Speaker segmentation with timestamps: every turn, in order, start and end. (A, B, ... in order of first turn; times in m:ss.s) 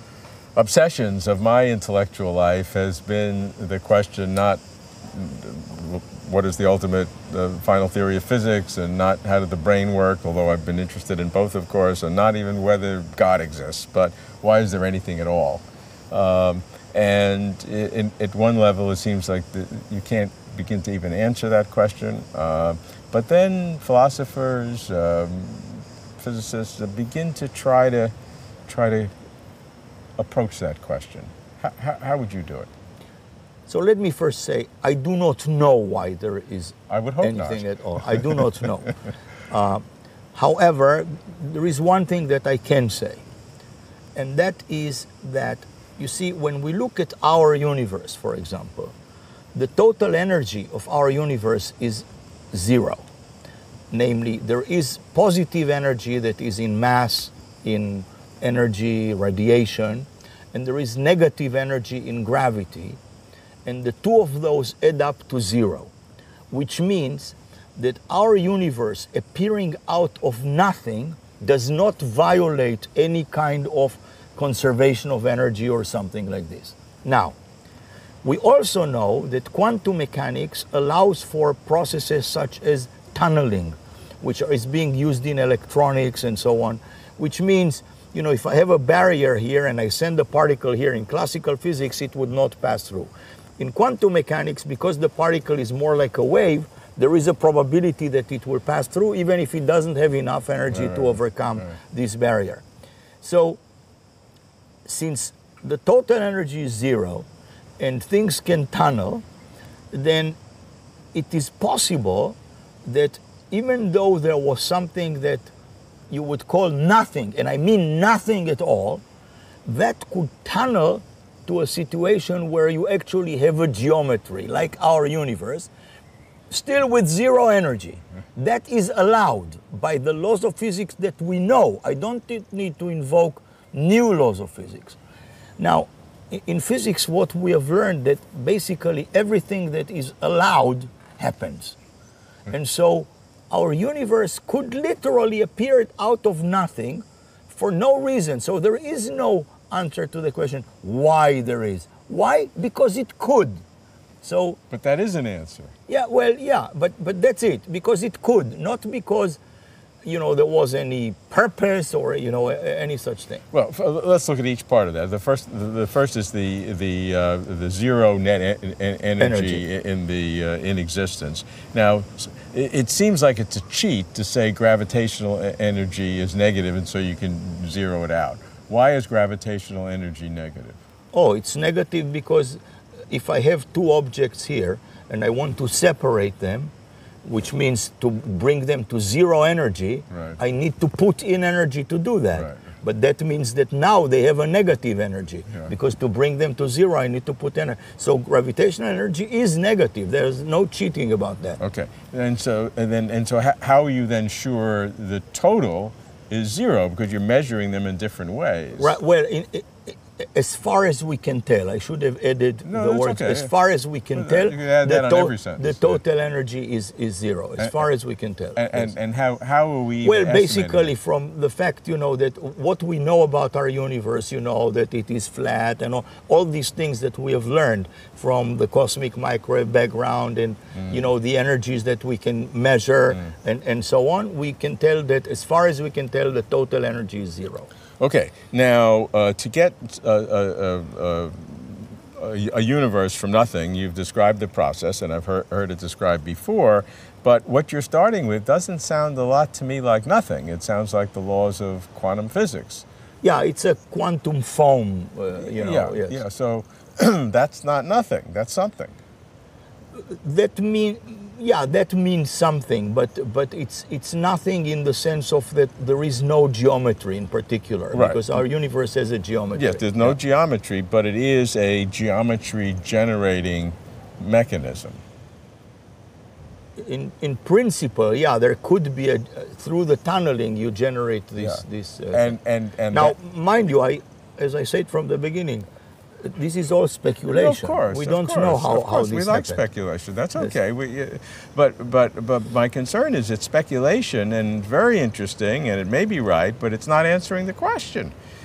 0:00.6-0:28.1 A
0:28.7-0:29.1 A
0:30.2-0:32.7 A
0:33.7-0:38.9 B
0:36.9-0:38.5 A
0:39.5-0:43.2 B
0:44.2-0:49.0 B
0:49.5-0:53.1 B
0:53.9-1:03.0 B
1:03.6-1:05.9 B
1:06.5-1:17.4 B
1:18.2-1:42.6 B
1:40.7-1:41.7 A
1:43.2-1:43.6 B
1:44.8-1:47.3 B
1:47.8-1:49.2 B
1:49.9-1:50.4 B
1:51.1-1:55.5 B
1:56.1-1:59.0 B
1:59.6-2:05.7 B
2:06.5-2:15.0 B
2:15.6-2:21.8 B
2:22.5-2:33.6 B
2:34.2-2:34.6 B
2:34.7-2:35.7 A
2:35.9-2:39.4 B
2:40.0-2:43.4 B
2:43.5-3:00.8 A
2:49.2-2:49.6 B
3:01.1-3:06.7 B
3:07.2-3:21.6 B
3:10.1-3:10.4 A
3:12.3-3:12.8 A
3:21.6-3:29.0 A
3:28.8-3:38.9 B
3:32.7-3:33.5 A
3:34.1-3:36.0 A
3:37.6-3:37.9 A
3:38.6-3:40.9 A
3:40.0-3:57.7 B
3:58.0-4:12.8 A
4:13.2-4:16.2 B
4:15.4-4:19.0 A
4:19.9-4:30.2 B
4:27.9-4:28.2 A
4:29.6-4:35.0 A
4:36.8-4:42.4 B
4:41.4-4:43.2 A
4:42.9-4:45.7 B
4:46.2-4:49.6 B
4:47.3-4:58.1 A